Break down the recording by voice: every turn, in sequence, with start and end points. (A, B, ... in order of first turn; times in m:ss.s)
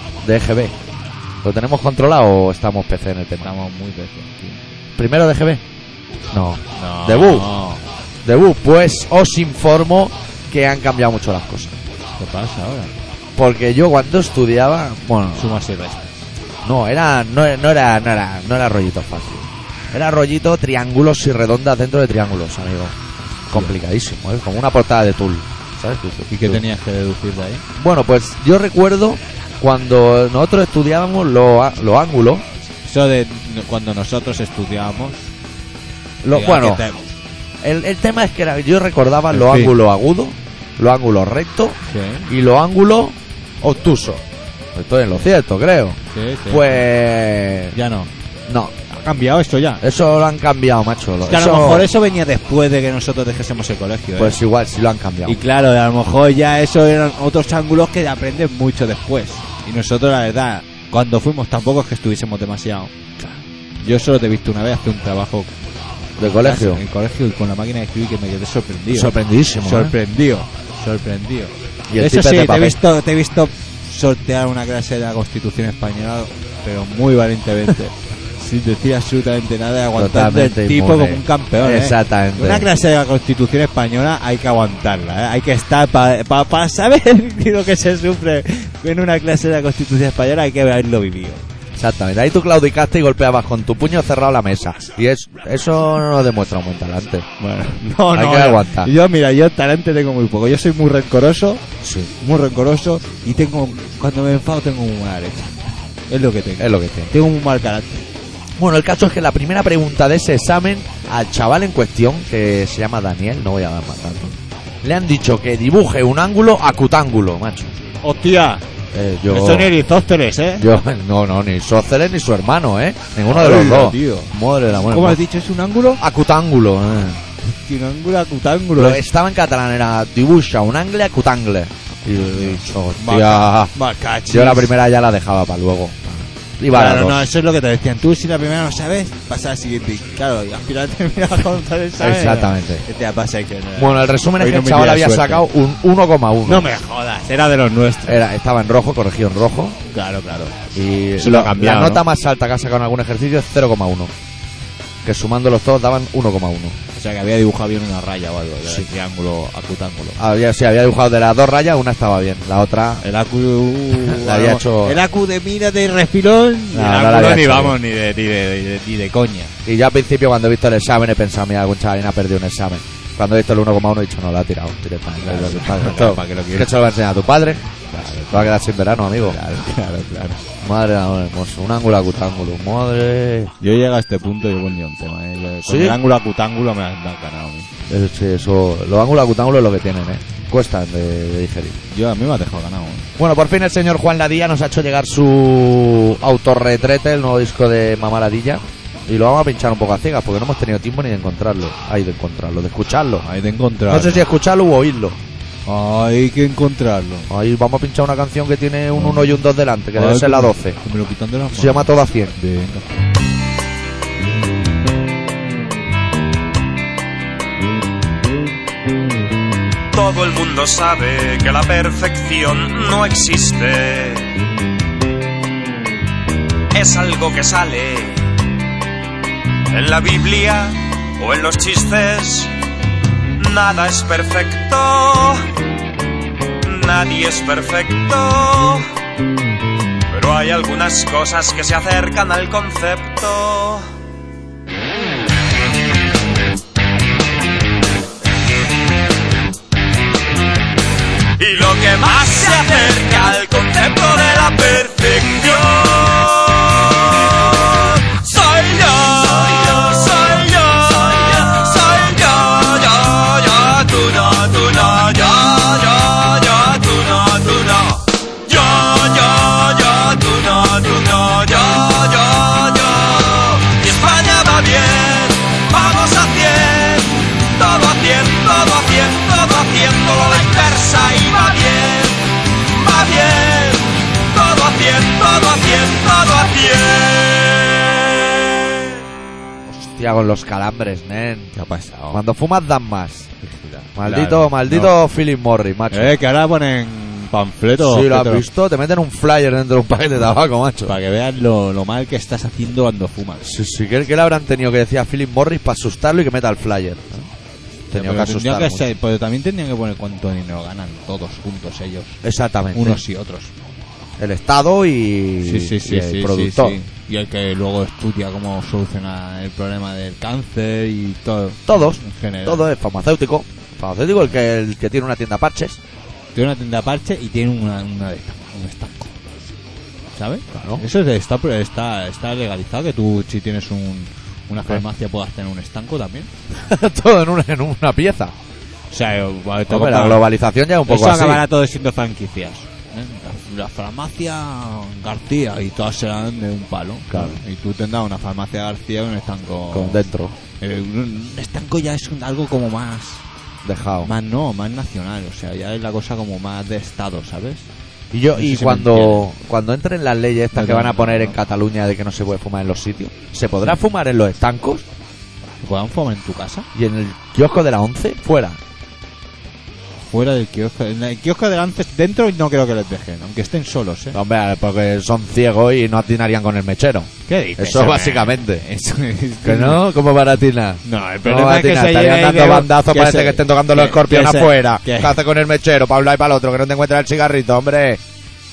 0:00.2-0:00.8 A
0:01.4-0:03.5 A
0:03.4-0:04.6 B
0:05.0-0:05.6 A
0:06.3-0:07.5 A
0:06.8-0:07.8 B
0:08.2-0:11.8 A
0:12.2-0:12.9 B
0:13.4-0:15.6 A
0:15.4-0:16.1 B
0:16.6-0:23.0 A
0:23.5-0:23.8 B
0:23.5-0:26.6 A
0:26.3-0:27.6 B
0:27.8-0:32.4 A
0:32.8-0:35.3 B
0:36.2-0:36.8 A
0:36.3-0:37.1 B
0:37.6-0:44.2 A
0:39.3-0:39.8 B
0:41.9-0:42.3 B
0:44.8-0:47.8 A
0:46.1-0:46.9 B
0:47.7-0:48.1 B
0:48.5-0:48.7 A
0:48.9-0:49.8 B
0:49.8-0:51.9 A
0:51.2-0:54.4 B
0:54.2-0:55.4 A
0:55.2-1:02.9 B
1:03.8-1:05.5 B
1:06.2-1:06.8 A
1:06.2-1:31.4 B
1:08.9-1:10.0 A
1:11.9-1:12.8 A
1:20.0-1:22.7 A
1:31.8-1:37.3 A
1:37.4-1:41.6 B
1:38.1-1:38.9 A
1:41.8-1:42.1 A
1:42.2-1:48.1 B
1:46.6-1:47.1 A
1:48.6-1:57.7 A
1:58.0-1:58.6 B
1:58.9-1:59.7 A
1:59.3-2:00.7 B
2:00.6-2:05.2 A
2:03.3-2:06.0 B
2:06.0-2:07.2 A
2:07.4-2:09.0 B
2:08.8-2:13.7 A
2:12.1-2:14.7 B
2:14.3-2:17.3 A
2:16.7-2:25.5 B
2:22.0-2:22.8 A
2:23.8-2:26.7 A
2:26.4-2:28.2 B
2:28.1-2:29.8 A
2:29.9-2:32.0 B
2:30.7-2:34.1 A
2:35.0-2:36.8 A
2:36.9-2:40.2 B
2:40.2-2:43.0 A
2:43.0-2:49.6 B
2:44.0-2:45.0 A
2:46.7-2:47.8 A
2:49.7-2:57.7 A
2:55.2-2:56.8 B
2:57.9-2:58.6 B
2:58.3-2:59.4 A
2:59.2-3:00.4 B
3:00.6-3:03.5 A
3:03.6-3:07.7 B
3:05.6-3:06.0 A
3:07.9-3:11.8 A
3:11.9-3:13.1 B
3:13.2-3:23.3 A
3:23.2-3:24.3 B
3:23.9-3:25.2 A
3:25.7-3:27.3 B
3:27.3-3:30.8 A
3:29.0-3:29.4 B
3:30.0-3:33.0 B
3:31.5-3:32.4 A
3:39.9-3:44.3 C
3:46.7-3:48.3 C
3:49.7-3:52.5 C
3:53.4-3:55.5 C
3:56.6-3:58.9 C
4:00.1-4:03.9 C
4:11.4-4:48.9 C
4:49.7-4:51.5 A
4:51.5-4:52.2 B
4:52.1-4:53.3 A
4:53.4-4:55.0 B
4:54.0-4:56.2 A
4:55.9-4:58.5 B
4:57.8-5:01.0 A
5:00.8-5:03.6 B
5:03.4-5:07.3 A
5:07.9-5:08.9 A
5:07.9-5:12.2 B
5:12.2-5:13.0 A
5:12.7-5:13.5 B
5:14.2-5:16.8 A
5:15.4-5:22.7 B
5:21.7-5:25.8 A
5:26.4-5:29.2 B
5:30.2-5:36.3 B
5:30.5-5:30.8 A
5:36.6-5:38.3 A
5:38.9-5:40.3 B
5:39.7-5:41.4 A
5:40.9-5:50.1 B
5:47.1-5:47.4 A
5:49.7-5:50.4 A
5:50.6-5:53.2 B
5:53.6-5:54.1 A
5:54.0-5:57.7 B
5:58.1-6:04.9 A
5:58.3-5:59.3 B
6:00.5-6:01.4 B
6:05.6-6:06.7 B
6:06.8-6:08.6 A
6:10.0-6:14.2 B
6:14.1-6:18.6 A
6:17.3-6:19.8 B
6:19.4-6:28.0 A
6:20.8-6:25.2 B